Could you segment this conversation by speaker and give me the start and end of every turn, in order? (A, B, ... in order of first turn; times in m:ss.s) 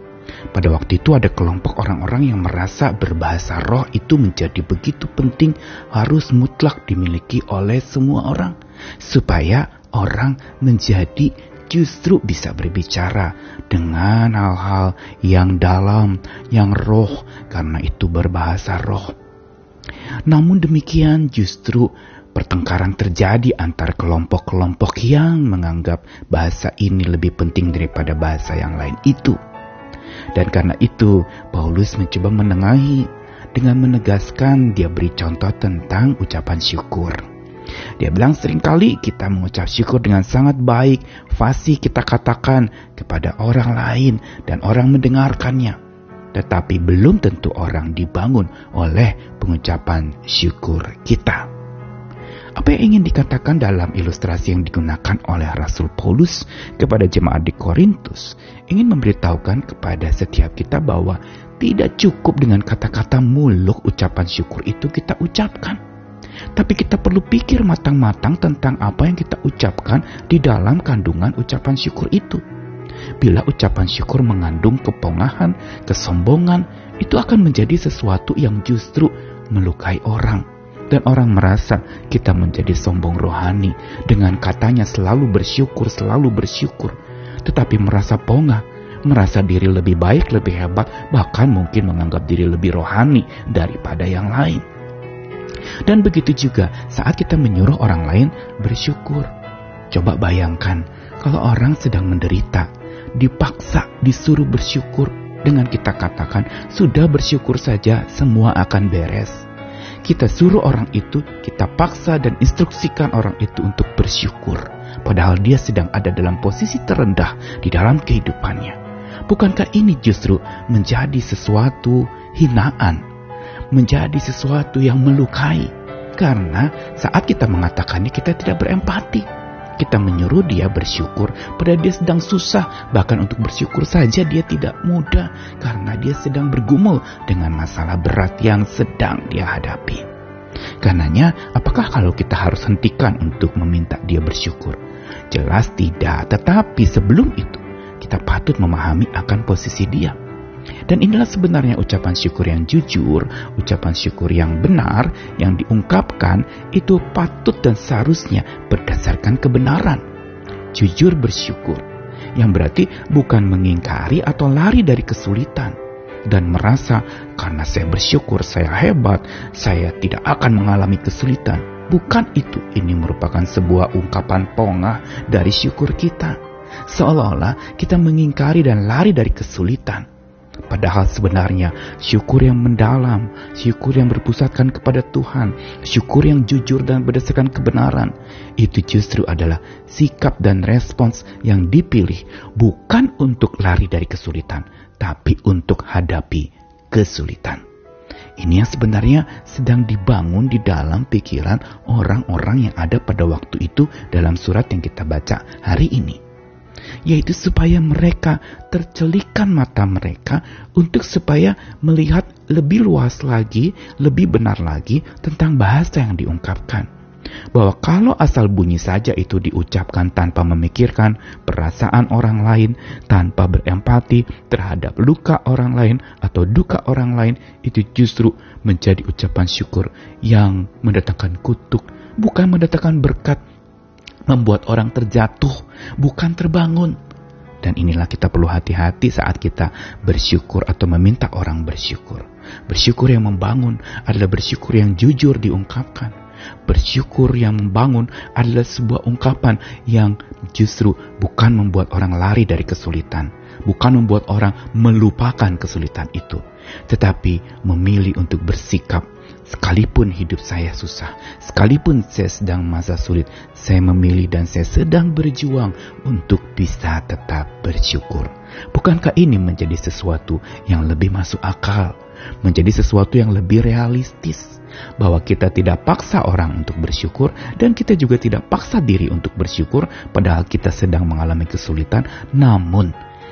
0:00.5-0:19.1 A
0:20.3-0:29.4 A
0:30.3-0:37.2 A
0:38.0-0:45.8 A
0:46.3-0:51.5 A
0:52.6-1:05.8 A
1:06.6-1:12.4 A
1:13.2-1:34.6 A
1:35.9-1:39.3 A
1:39.9-1:49.5 A
1:50.0-2:03.0 A
2:03.7-2:09.3 A
2:09.8-2:20.0 A
2:20.8-2:24.8 A
2:25.3-2:30.2 A
2:30.9-2:40.0 A
2:40.7-2:41.8 A
2:42.4-2:45.8 A
2:46.3-3:00.1 A
3:00.7-3:17.6 A
3:18.4-3:26.2 A
3:27.1-3:36.9 A
3:37.5-3:53.4 A
3:54.3-3:57.0 A
3:57.6-4:06.1 A
4:06.7-4:42.9 A